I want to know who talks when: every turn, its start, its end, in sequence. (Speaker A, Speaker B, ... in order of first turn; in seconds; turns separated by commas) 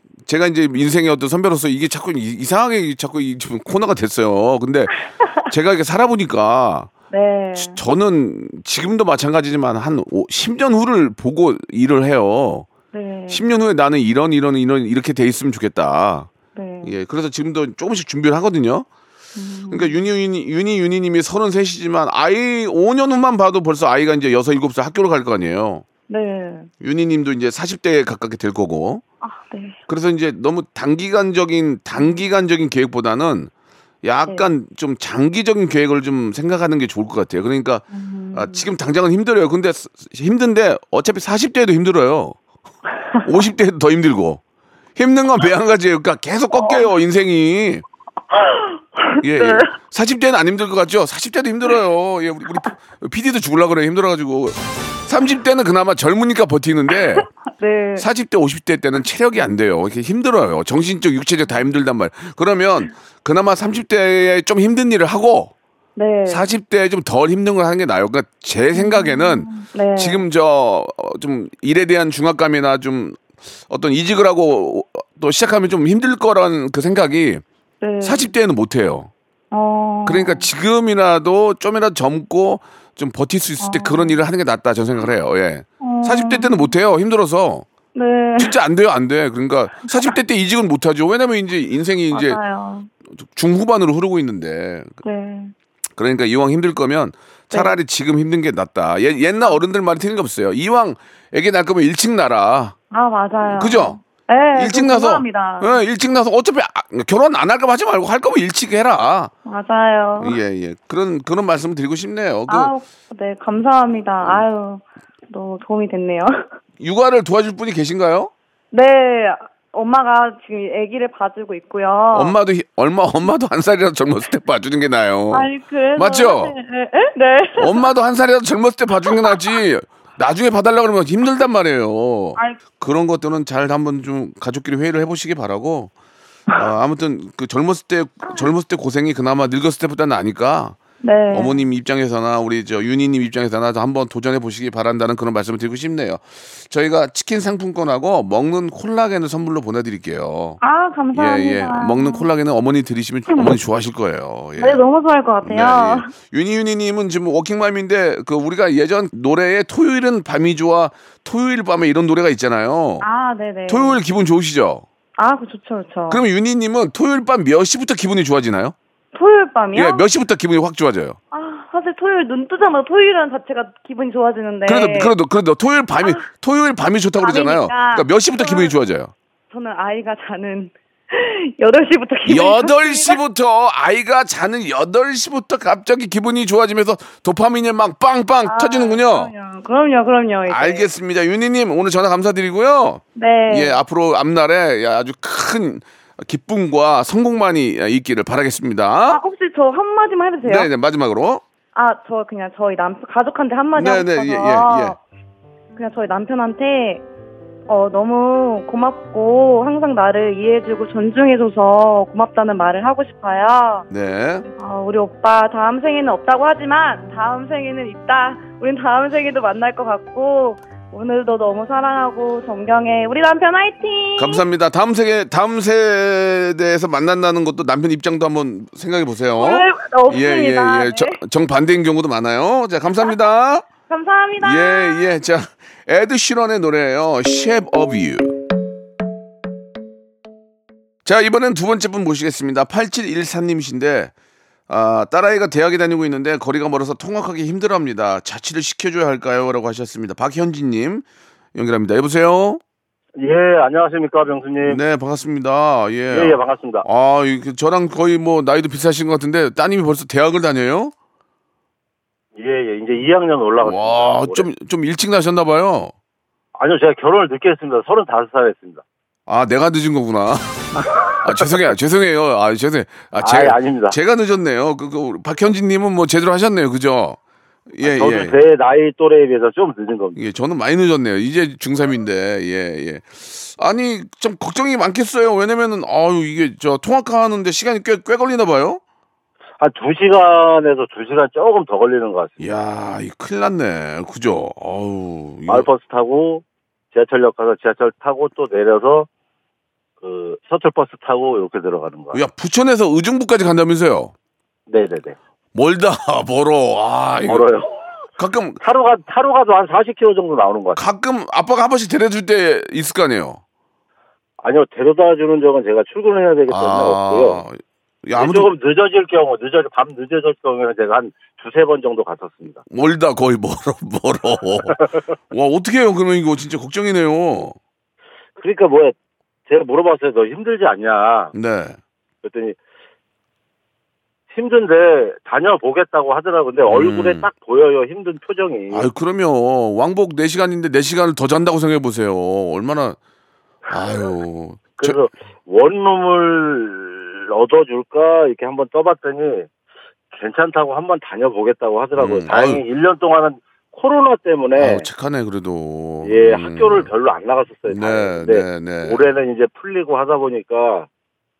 Speaker A: 0.2-6.9, Speaker B: 7.1-7.8, Speaker A: 7.5-12.7, Speaker B: 12.9-13.4, Speaker A: 13.3-16.3, Speaker B: 16.5-17.0, Speaker A: 16.8-18.9, Speaker B: 19.4-20.0, Speaker A: 19.7-25.8, Speaker B: 26.1-26.7, Speaker A: 26.8-29.0, Speaker B: 29.2-29.8, Speaker A: 29.9-33.5, Speaker B: 31.9-32.2, Speaker A: 34.0-42.4, Speaker B: 37.9-38.7, Speaker A: 43.2-44.4, Speaker A: 45.0-47.8, Speaker B: 46.5-46.9, Speaker B: 48.3-49.7, Speaker A: 49.2-57.3, Speaker B: 57.6-58.0, Speaker A: 58.0-65.5, Speaker B: 66.0-66.5, Speaker A: 66.2-77.4, Speaker B: 68.7-70.2, Speaker B: 77.8-78.3, Speaker A: 78.0-79.1, Speaker B: 79.5-80.5, Speaker A: 80.0-87.7, Speaker B: 83.6-84.2, Speaker B: 85.8-86.7, Speaker B: 87.9-88.5, Speaker A: 88.4-92.4, Speaker B: 89.8-90.2, Speaker B: 92.1-92.9, Speaker A: 93.1-95.0, Speaker B: 95.0-95.5, Speaker A: 96.0-102.8, Speaker B: 97.5-97.8, Speaker B: 102.9-105.8, Speaker A: 103.4-104.0, Speaker A: 104.5-109.3, Speaker B: 109.4-110.4, Speaker A: 110.2-112.7, Speaker B: 112.5-116.4, Speaker A: 116.8-118.3, Speaker B: 118.7-122.3, Speaker A: 122.1-126.5, Speaker B: 125.3-127.9, Speaker A: 127.5-135.9, Speaker B: 129.1-129.4, Speaker A: 136.5-140.8, Speaker B: 141.0-141.7, Speaker A: 141.3-150.6, Speaker B: 150.6-152.2, Speaker A: 151.1-154.8, Speaker B: 153.3-153.6, Speaker B: 154.6-156.1, Speaker A: 155.4-163.0, Speaker B: 163.0-164.0, Speaker A: 163.7-164.8, Speaker B: 165.2-166.2, Speaker A: 166.1-168.7, Speaker B: 169.1-170.0, Speaker A: 169.7-171.2, Speaker B: 171.3-175.2, Speaker A: 174.7-179.1, Speaker B: 176.0-176.3, Speaker B: 177.2-178.8, Speaker B: 179.5-183.2, Speaker A: 182.2-189.3, Speaker B: 188.4-190.9, Speaker A: 190.5-199.2, Speaker B: 193.1-193.8, Speaker B: 199.1-200.7, Speaker A: 200.4-201.4, Speaker B: 201.7-205.0, Speaker A: 203.7-204.9, Speaker B: 205.7-207.0, Speaker B: 207.7-213.8, Speaker A: 213.9-214.5, Speaker B: 214.6-224.4, Speaker A: 224.2-233.7, Speaker B: 229.4-231.2, Speaker B: 233.9-235.1, Speaker A: 234.4-238.3, Speaker A: 241.0-244.1, Speaker A: 244.7-252.6, Speaker C: 253.2-254.8, Speaker A: 254.6-260.9, Speaker C: 256.1-256.8, Speaker C: 262.4-264.5, Speaker A: 263.6-265.9, Speaker C: 266.6-268.8, Speaker A: 269.3-277.2, Speaker C: 273.2-273.9, Speaker A: 277.7-278.4, Speaker C: 277.8-280.1, Speaker A: 280.1-288.8, Speaker C: 289.6-292.4, Speaker A: 292.4-295.7, Speaker C: 295.5-299.1, Speaker C: 300.0-302.2, Speaker A: 302.1-304.1, Speaker C: 304.7-305.1, Speaker A: 305.5-307.5, Speaker C: 307.3-307.7, Speaker A: 308.2-308.6, Speaker C: 308.6-310.8, Speaker A: 310.8-313.4, Speaker C: 314.4-317.4, Speaker A: 316.5-318.5, Speaker C: 318.2-322.6, Speaker A: 322.7-324.8, Speaker A: 325.3-327.6, Speaker C: 328.4-328.9, Speaker C: 329.5-331.3, Speaker A: 331.3-331.8, Speaker C: 332.2-332.6, Speaker C: 334.3-338.9, Speaker A: 336.7-337.3, Speaker A: 338.7-343.0, Speaker A: 343.7-345.0, Speaker C: 344.8-349.5, Speaker C: 350.1-354.9, Speaker A: 351.9-352.6, Speaker A: 354.6-356.9, Speaker C: 356.0-360.9, Speaker A: 357.7-359.0